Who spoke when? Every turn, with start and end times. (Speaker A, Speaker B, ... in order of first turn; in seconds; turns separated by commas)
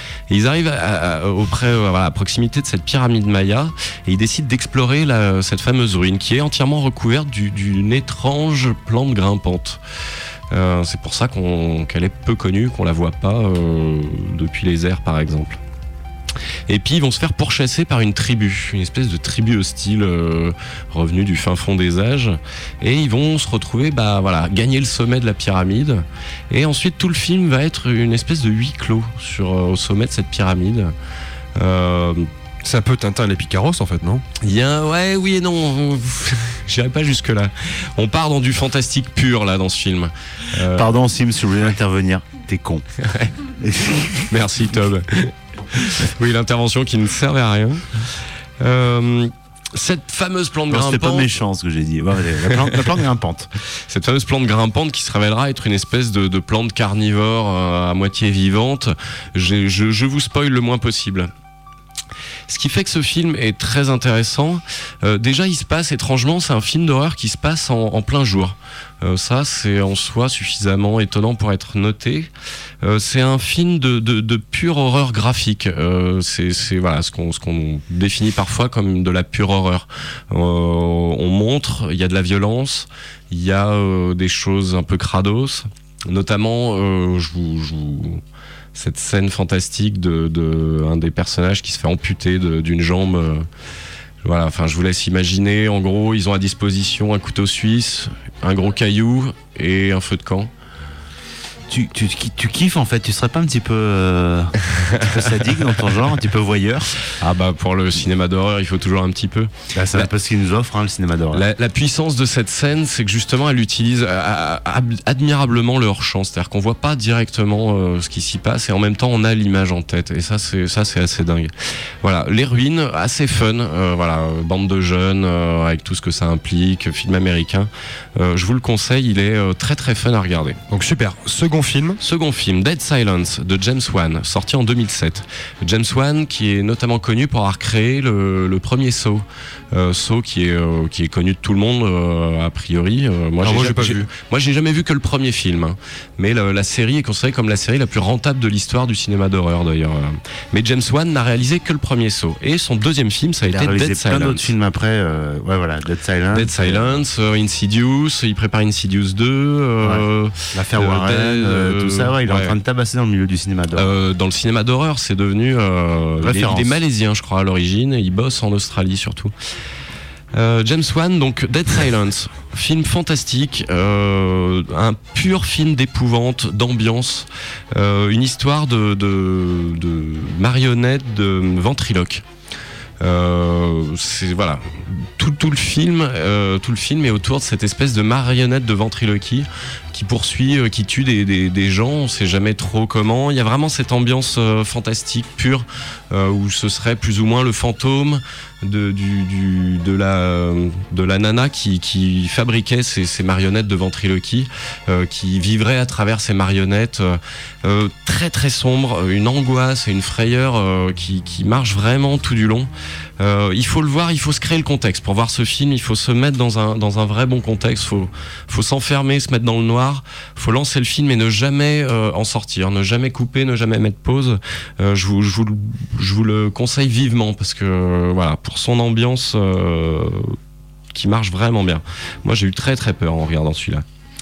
Speaker A: 0.3-9.8, Speaker A: 10.5-15.6, Speaker A: 16.7-30.9, Speaker A: 31.6-32.3, Speaker B: 32.6-34.2, Speaker A: 34.4-40.9, Speaker C: 40.6-42.9, Speaker C: 43.6-44.3, Speaker A: 44.3-51.3, Speaker C: 50.7-53.5, Speaker A: 52.5-53.0, Speaker A: 53.9-61.3, Speaker A: 62.5-72.3, Speaker A: 72.8-88.2, Speaker A: 88.8-93.5, Speaker A: 94.2-100.5, Speaker C: 101.7-107.0, Speaker A: 107.2-110.1, Speaker C: 109.8-111.5, Speaker A: 111.3-121.5, Speaker A: 122.0-130.6, Speaker B: 130.7-132.0, Speaker A: 132.0-154.5, Speaker B: 143.4-144.1, Speaker C: 153.5-157.0, Speaker A: 156.3-162.6, Speaker C: 160.5-163.9, Speaker A: 163.8-169.3, Speaker C: 166.2-166.8, Speaker A: 170.3-182.2, Speaker A: 183.0-230.4, Speaker A: 230.9-233.8